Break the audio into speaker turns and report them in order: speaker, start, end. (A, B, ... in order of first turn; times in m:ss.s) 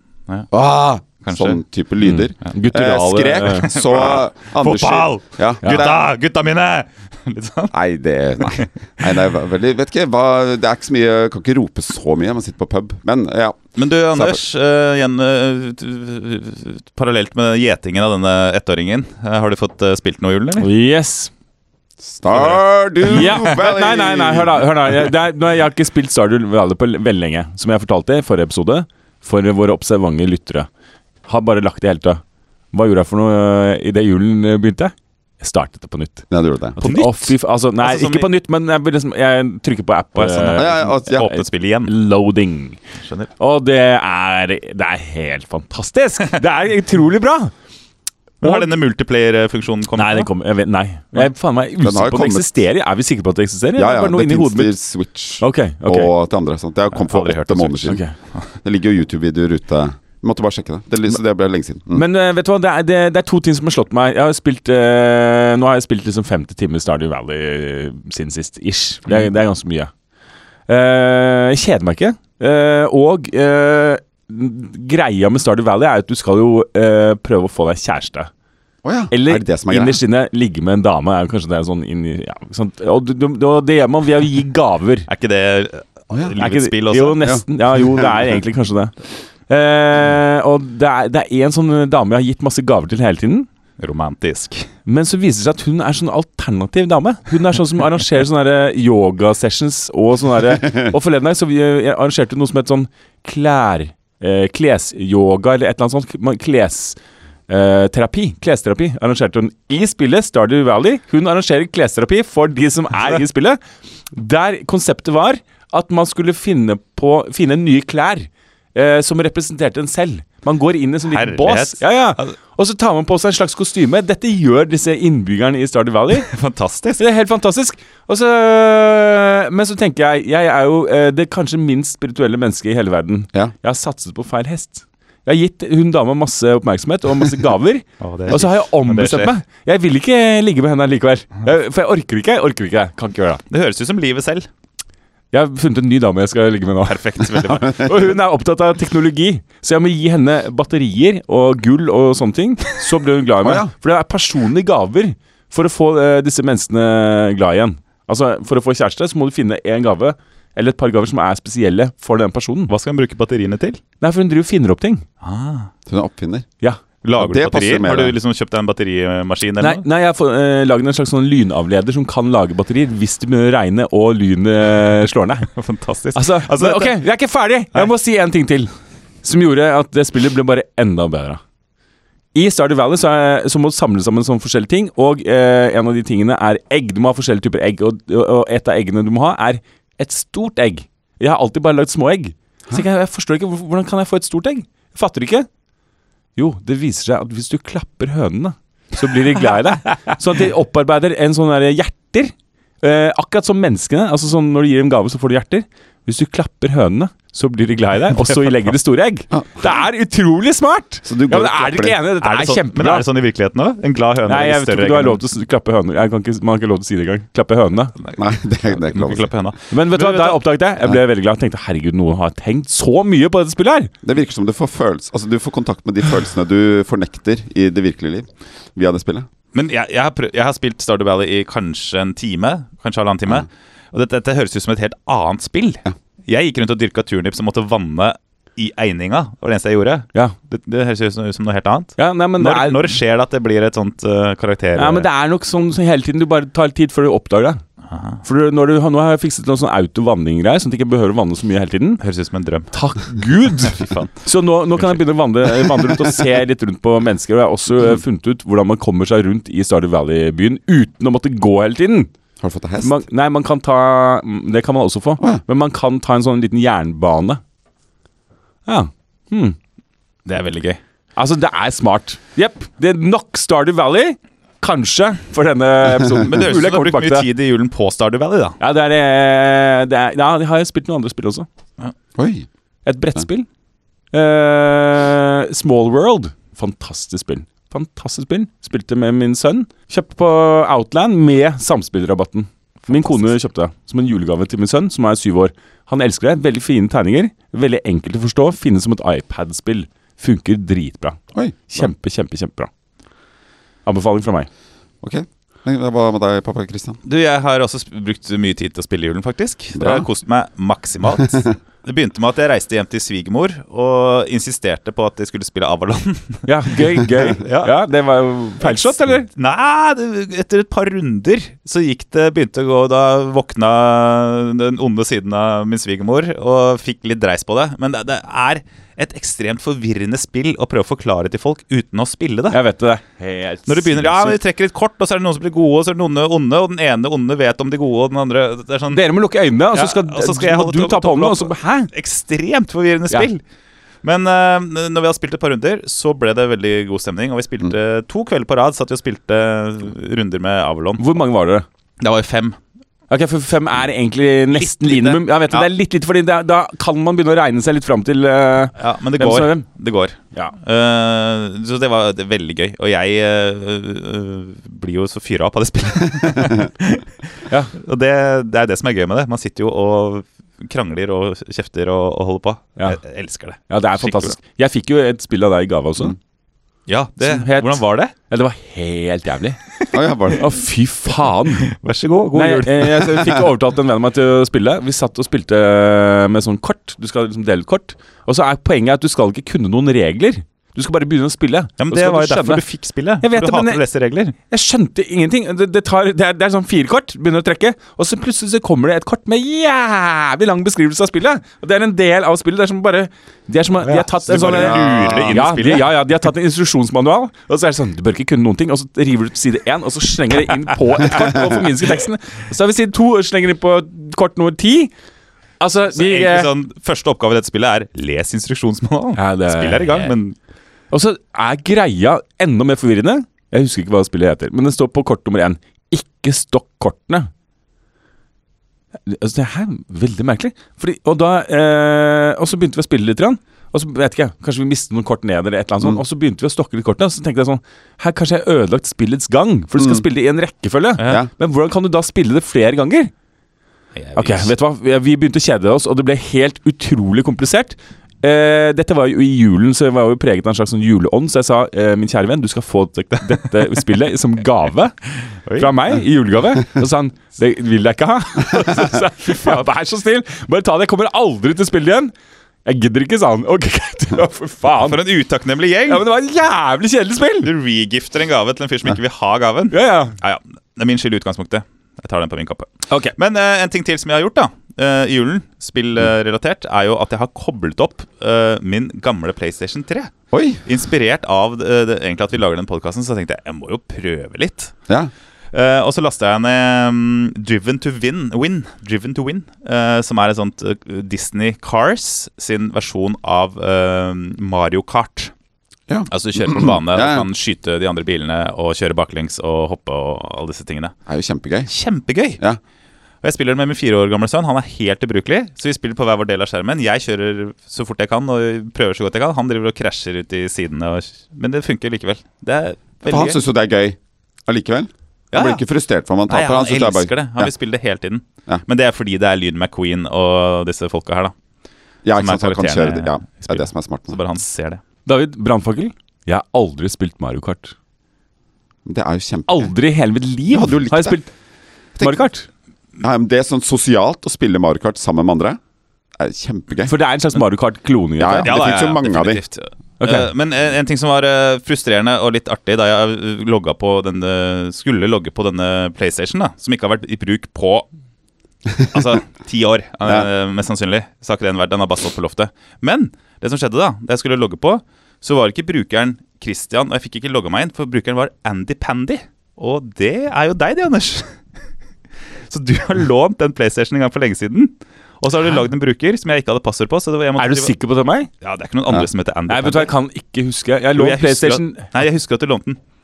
0:00.5-0:06.1 A
0:01.2-0:01.6 B
0:02.0-0:03.7 C
0:03.4-0:07.7 B
0:05.6-0:05.9 C
0:07.7-0:13.6 A
0:13.8-0:20.7 B
0:14.1-0:14.4 A
0:20.6-0:21.3 C
0:22.0-0:24.7 A
0:22.3-0:23.6 B
0:23.0-0:30.7 C
0:31.3-0:42.8 C
0:36.3-0:36.8 A
0:36.8-0:38.3 B
0:40.2-0:41.9 B
0:40.5-0:41.3 A
0:43.0-0:43.3 B
0:43.4-0:47.5 C
0:48.4-0:48.7 C
0:48.4-0:50.3 B
0:50.0-0:54.8 C
0:51.8-0:52.5 A
0:53.8-0:58.0 A
0:55.4-0:56.1 C
0:56.9-0:58.0 B
0:57.9-0:58.2 C
0:58.6-1:02.0 A
1:01.9-1:09.9 C
1:10.7-1:18.3 C
1:18.8-1:20.0 A
1:19.1-1:25.1 C
1:25.1-1:27.3 B
1:26.1-1:26.4 A
1:26.4-1:29.0 C
1:27.2-1:28.2 A
1:29.5-1:33.5 C
1:33.8-1:34.7 B
1:34.9-1:47.0 C
1:47.5-1:53.6 C
1:54.1-2:06.3 C
2:01.1-2:02.4 B
2:06.2-2:07.0 B
2:07.0-2:23.4 C
2:18.0-2:19.3 B
2:23.5-2:24.5 B
2:25.3-2:42.7 C
2:26.9-2:28.0 B
2:27.6-2:27.9 A
2:33.4-2:33.7 A
2:42.7-2:43.8 B
2:44.0-2:45.0 C
2:45.2-2:45.7 B
2:45.9-2:46.5 A
2:47.0-2:49.8 B
2:47.2-2:48.2 A
2:49.6-2:55.5 C
2:55.6-2:57.0 B
2:56.1-2:58.7 C
2:59.2-3:01.4 C
3:02.3-3:15.5 C
3:16.4-3:33.1 C
3:31.0-3:32.0 A
3:32.2-3:35.2 B
3:34.3-3:38.0 C
3:38.0-3:40.4 B
3:38.2-3:39.3 A
3:39.7-3:43.9 C
3:44.0-3:49.3 A
3:49.5-4:05.1 B
4:02.0-4:03.0 C
4:04.8-4:07.6 C
4:07.9-4:08.2 B
4:08.2-4:12.0 C
4:12.0-4:14.1 B
4:12.7-4:22.1 C
4:22.4-4:23.0 A
4:22.8-4:27.4 C
4:28.7-4:29.6 C
4:30.3-4:30.8 B
4:31.2-4:37.3 C
4:36.1-4:38.6 B
4:38.6-4:41.5 C
4:42.2-4:42.5 A
4:42.8-4:43.5 C
4:44.1-5:02.7 C
5:01.3-5:01.8 A
5:03.9-5:04.5 C
5:05.0-5:07.0 A
5:07.0-5:17.7 B
5:09.8-5:10.1 A
5:16.5-5:19.3 C
5:18.6-5:32.6 B
5:32.5-5:34.4 C
5:33.7-5:39.0 B
5:38.9-5:41.9 C
5:39.7-5:43.4 B
5:44.0-5:51.0 B
5:51.0-5:51.6 C
5:52.0-5:52.6 B
5:53.1-5:59.7 C
5:54.5-5:55.7 B
5:58.8-6:14.4 B
6:13.7-6:16.2 C
6:16.9-6:18.1 B
6:17.2-6:19.6 C
6:19.9-6:20.5 A
6:20.4-6:21.7 C
6:21.6-6:23.2 B
6:22.3-6:32.6 C
6:31.8-6:34.4 B
6:33.2-6:33.8 C
6:34.5-6:54.9 C
6:43.8-6:46.0 B
6:44.5-6:45.4 A
6:55.6-6:56.5 C
6:55.9-7:00.4 B
6:59.2-7:00.1 C
7:00.9-7:07.3 C
7:09.1-7:23.1 C
7:19.8-7:20.0 A
7:21.0-7:21.2 B
7:21.0-7:21.3 A
7:24.0-7:24.5 B
7:24.2-7:35.0 C
7:35.5-7:35.7 B
7:35.6-7:42.1 C
7:42.6-7:45.0 C
7:44.8-7:46.0 B
7:45.9-7:47.5 C
7:47.4-8:00.1 B
7:49.7-7:50.2 C
7:52.9-7:53.2 C
8:00.3-8:00.6 A
8:00.6-8:04.7 B
8:05.5-8:15.3 B
8:15.9-8:17.3 A
8:16.1-8:20.9 B
8:21.1-8:21.7 A
8:21.7-8:22.4 B
8:23.2-8:33.4 B
8:33.1-8:37.5 A
8:35.3-8:35.6 B
8:36.3-8:41.3 B
8:42.0-8:44.2 A
8:42.2-8:44.8 B
8:45.1-8:47.8 C
8:48.8-8:49.7 A
8:49.5-8:51.3 C
8:50.5-8:51.2 A
8:52.0-8:52.2 A
8:52.0-8:52.5 C
8:53.0-8:55.6 A
8:56.2-8:56.9 A
8:56.8-8:58.6 C
8:58.2-8:59.4 A
8:58.3-9:07.9 B
9:00.0-9:00.3 C
9:08.8-9:09.1 A
9:08.9-9:21.3 B
9:22.5-9:27.7 B
9:27.4-9:28.3 C
9:28.4-9:29.9 B
9:29.5-9:31.9 C
9:31.0-9:32.8 B